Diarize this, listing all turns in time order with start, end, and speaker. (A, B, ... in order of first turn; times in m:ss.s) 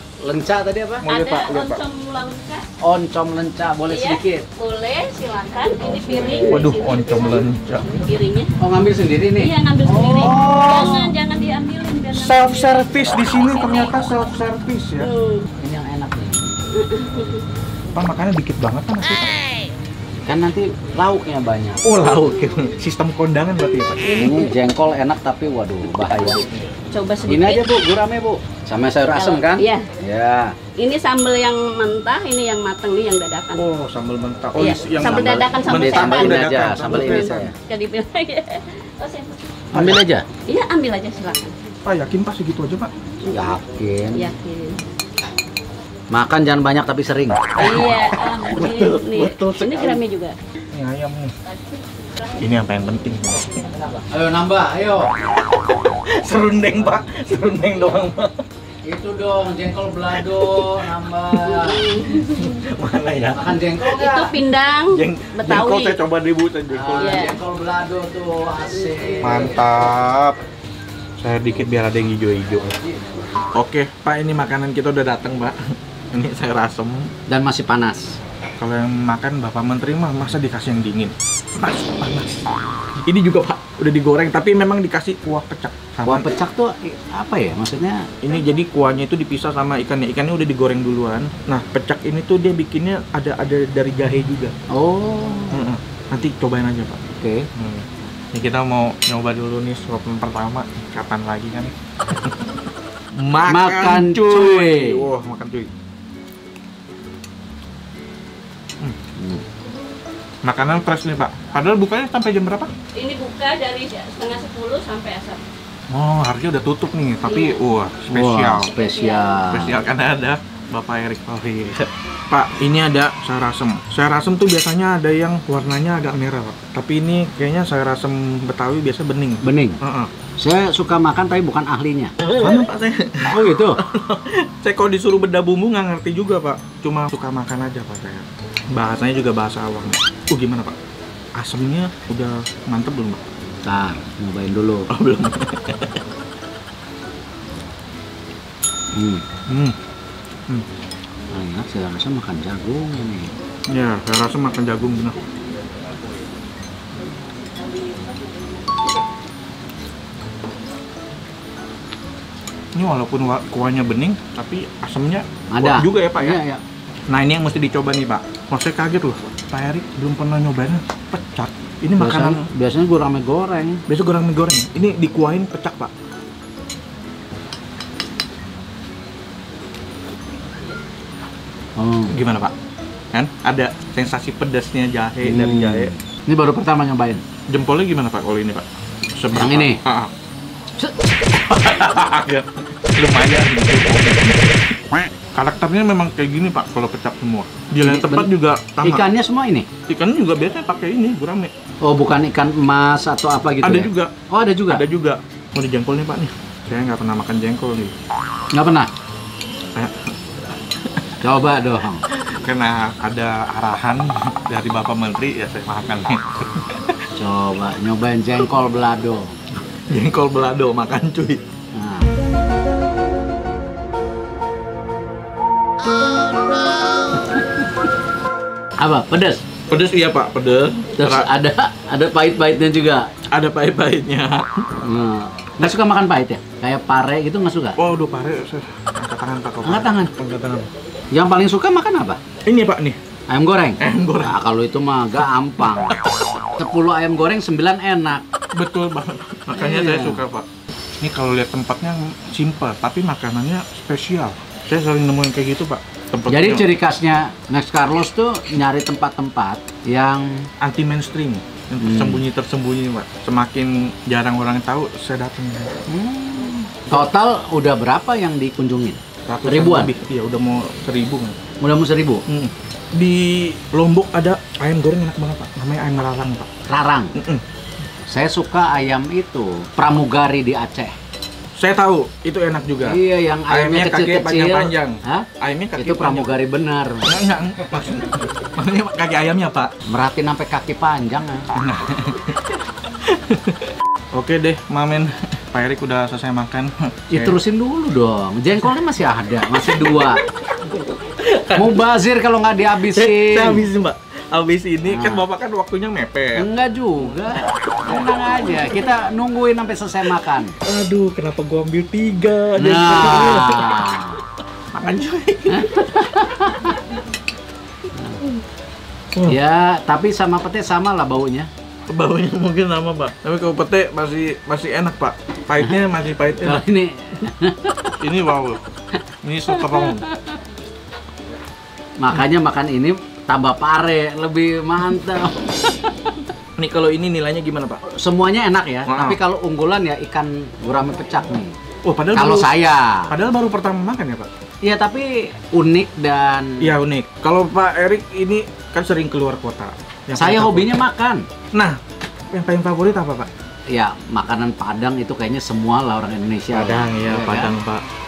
0:00.2-0:01.0 A
0:01.0-0:01.8 B
0:01.1-0:02.6 C
0:02.8-0:04.4 A
0:03.9-0:08.5 C
0:06.5-0:07.9 B
0:08.6-0:11.1 A
0:09.4-0:14.1 C
0:10.4-0:10.9 B
0:12.1-0:15.1 B
0:15.0-0:15.5 C
0:15.6-0:16.5 A
0:16.7-0:17.4 C
0:17.9-0:19.3 B
0:20.2-0:21.8 A
0:21.8-0:24.4 B
0:24.2-0:26.5 A
0:26.9-0:27.6 C
0:27.3-0:30.6 A
0:29.1-0:29.9 C
0:30.8-0:33.6 C
0:33.5-0:37.5 B
0:34.6-0:39.4 C
0:35.0-0:37.5 A
0:39.7-0:40.2 A
0:39.7-0:40.0 B
0:40.5-0:41.5 C
0:41.8-0:42.9 B
0:43.3-0:44.3 A
0:44.1-0:44.8 C
0:46.1-0:47.5 A
0:47.6-0:50.4 C
0:47.6-0:50.0 B
0:50.7-0:51.3 B
0:52.4-0:53.6 B
0:54.1-0:55.1 A
0:55.0-0:58.4 B
0:58.8-1:01.9 A
1:00.2-1:00.8 B
1:01.4-1:02.6 C
1:02.1-1:03.6 B
1:03.3-1:04.4 A
1:03.8-1:06.0 C
1:04.9-1:07.3 B
1:06.7-1:09.6 A
1:07.0-1:07.4 C
1:08.7-1:09.2 C
1:09.2-1:10.4 B
1:11.2-1:12.7 B
1:12.7-1:13.3 A
1:13.5-1:15.6 B
1:16.1-1:17.1 B
1:17.3-1:18.0 A
1:18.6-1:26.3 B
1:26.0-1:28.1 A
1:28.2-1:34.5 B
1:34.7-1:35.6 A
1:35.5-1:37.0 B
1:37.2-1:37.5 A
1:37.5-1:42.4 B
1:43.1-1:45.7 B
1:43.5-1:45.1 A
1:49.2-1:49.4 A
1:50.4-1:52.7 B
1:52.9-1:55.4 C
1:55.9-1:58.7 B
1:57.2-1:57.6 C
1:58.1-1:59.8 A
1:58.6-1:59.5 C
1:59.5-2:10.1 B
2:09.4-2:09.8 A
2:10.4-2:12.1 A
2:12.3-2:20.7 B
2:13.3-2:13.8 A
2:21.4-2:23.2 B
2:23.6-2:24.9 A
2:24.9-2:26.0 B
2:29.0-2:29.2 A
2:29.5-2:29.7 B
2:31.3-2:33.3 A
2:33.7-2:35.2 B
2:42.7-2:46.4 B
2:45.5-2:46.6 A
2:47.1-2:52.5 B
2:52.0-2:53.8 A
2:53.9-2:55.9 B
3:01.8-3:02.2 A
3:02.1-3:02.5 B
3:03.1-3:05.9 B
3:05.2-3:07.2 A
3:07.5-3:10.1 B
3:09.3-3:09.8 A
3:11.3-3:14.8 B
3:15.3-3:19.1 B
3:17.8-3:18.3 A
3:18.8-3:19.7 A
3:19.9-3:21.5 B
3:21.8-3:24.8 A
3:23.6-3:24.1 B
3:24.7-3:27.9 B
3:28.5-3:28.9 A
3:29.7-3:30.1 B
3:31.2-3:32.0 A
3:32.1-3:37.0 B
3:37.2-3:39.4 A
3:39.9-3:41.4 B
3:41.7-3:42.1 A
3:48.8-3:49.4 A
3:49.7-3:51.3 B
3:51.0-3:53.1 A
3:53.3-3:54.7 B
3:54.8-3:57.8 A
3:57.8-4:00.7 B
3:59.6-4:00.1 A
4:01.1-4:02.2 A
4:02.4-4:03.0 B
4:03.3-4:06.0 A
4:03.8-4:04.4 B
4:06.6-4:08.2 A
4:08.5-4:10.4 B
4:09.5-4:10.2 A
4:11.0-4:16.7 B
4:16.3-4:20.5 A
4:20.6-4:25.8 B
4:21.8-4:22.2 A
4:25.9-4:29.9 A
4:29.3-4:31.3 B
4:31.6-4:32.2 A
4:32.3-4:36.5 B
4:36.7-4:37.1 A
4:37.2-4:37.4 B
4:38.1-4:40.9 A
4:41.6-4:43.0 B
4:42.8-4:47.1 A
4:43.5-4:46.3 B
4:47.0-4:49.7 B
4:49.9-4:51.5 A
4:51.5-4:52.4 B
4:53.1-4:53.6 B
4:54.1-4:57.4 B
4:57.1-5:00.2 A
4:59.7-5:00.1 B
5:00.7-5:01.8 B
5:01.6-5:03.7 A
5:02.9-5:08.0 B
5:04.9-5:05.2 A
5:06.4-5:10.5 A
5:10.6-5:14.1 B
5:12.6-5:14.2 A
5:14.7-5:15.9 B
5:15.5-5:16.8 A
5:18.0-5:18.3 A
5:19.3-5:21.5 A
5:21.9-5:26.6 B
5:26.4-5:28.0 A
5:28.0-5:28.6 B
5:29.2-5:30.0 B
5:29.6-5:29.9 A
5:32.0-5:36.1 A
5:36.6-5:37.8 B
5:37.9-5:41.5 A
5:38.8-5:39.2 B
5:41.8-5:44.3 B
5:42.1-5:43.1 A
5:44.6-5:46.7 A
5:46.6-5:50.7 B
5:50.1-5:51.2 A
5:52.3-5:53.3 B
5:53.7-5:57.5 A
5:56.5-5:57.8 B